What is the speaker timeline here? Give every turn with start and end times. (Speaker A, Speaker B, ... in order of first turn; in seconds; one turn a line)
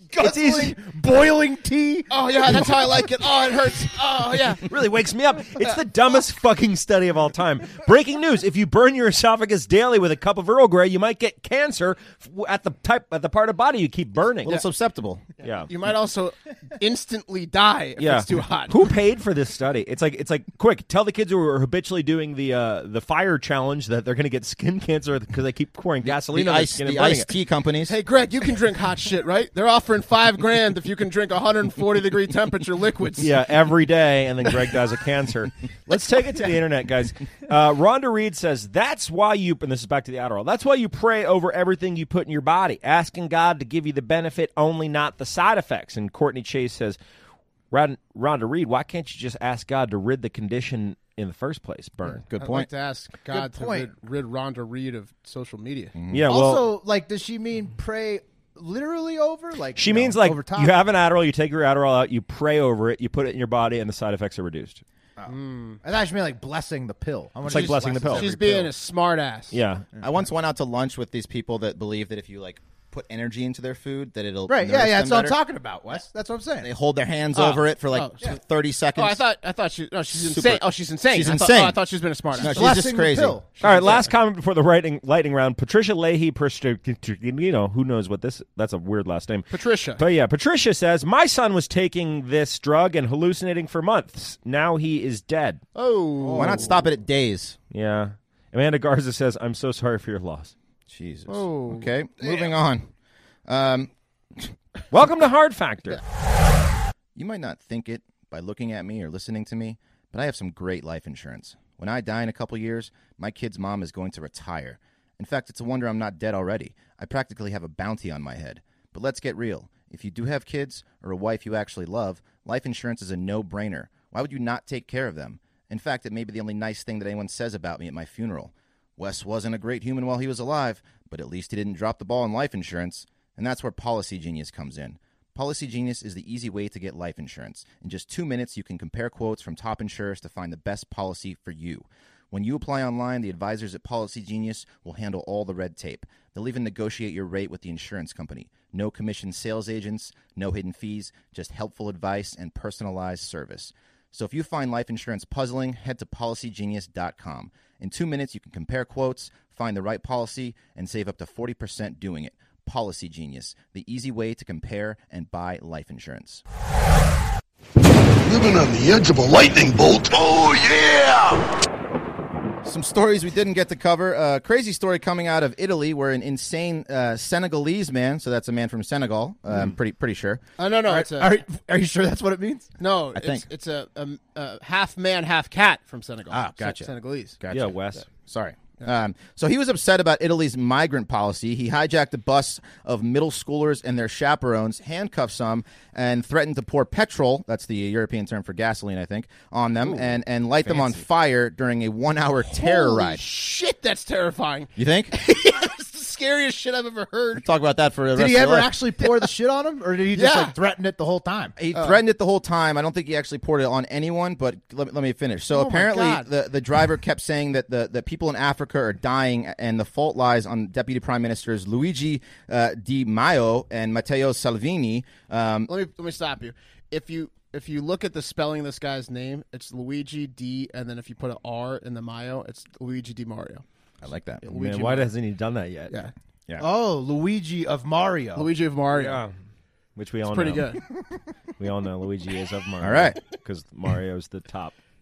Speaker A: 0.1-2.7
Speaker B: 0.2-0.8
Speaker C: 2.1-4.7
Speaker B: 4.6-14.6
Speaker D: 14.4-15.2
Speaker B: 15.4-15.7
Speaker C: 15.4-18.8
Speaker B: 18.0-27.3
Speaker D: 26.0-27.9
Speaker C: 27.9-33.3
Speaker B: 33.2-47.0
Speaker B: 47.7-52.2
Speaker D: 52.3-52.7
Speaker C: 52.4-55.9
Speaker A: 53.3-53.9
Speaker D: 55.9-56.2
Speaker B: 56.1-56.7
Speaker A: 56.3-60.7
Speaker B: 59.8-64.8
Speaker A: 65.2-68.7
Speaker C: 65.2-65.8
Speaker B: 67.4-68.3
Speaker D: 67.5-67.8
Speaker C: 68.1-69.6
Speaker B: 69.5-69.8
Speaker A: 69.9-70.2
Speaker D: 70.0-75.4
Speaker A: 74.5-76.7
Speaker D: 76.6-79.2
Speaker C: 77.3-78.2
Speaker C: 79.0-82.8
Speaker D: 80.1-81.8
Speaker D: 82.3-83.4
Speaker A: 82.4-83.5
Speaker C: 83.5-84.1
Speaker B: 83.6-89.5
Speaker C: 89.5-90.0
Speaker B: 90.0-95.6
Speaker C: 95.7-96.7
Speaker A: 96.2-96.8
Speaker D: 96.3-97.6
Speaker B: 97.7-100.5
Speaker D: 100.9-102.9
Speaker C: 101.3-101.9
Speaker D: 103.5-104.5
Speaker B: 104.9-106.0
Speaker D: 107.2-166.4
Speaker E: 168.2-171.5
Speaker D: 172.6-180.4
Speaker C: 180.6-181.3
Speaker A: 180.9-182.7
Speaker C: 182.8-187.4
Speaker D: 183.1-183.4
Speaker D: 186.3-203.2
Speaker B: 187.5-188.0
Speaker C: 202.5-207.4
Speaker D: 204.8-205.1
Speaker D: 207.4-208.7
Speaker A: 208.1-211.5
Speaker C: 210.1-210.6
Speaker D: 211.6-225.7
Speaker C: 211.7-212.0
Speaker C: 215.5-216.3
Speaker C: 225.7-233.6
Speaker D: 234.0-234.4
Speaker C: 234.4-235.1
Speaker B: 234.5-235.9
Speaker A: 236.6-238.5
Speaker C: 238.3-239.2
Speaker B: 238.9-239.3
Speaker B: 239.9-240.8
Speaker C: 240.3-240.8
Speaker B: 241.6-244.7
Speaker D: 242.8-243.2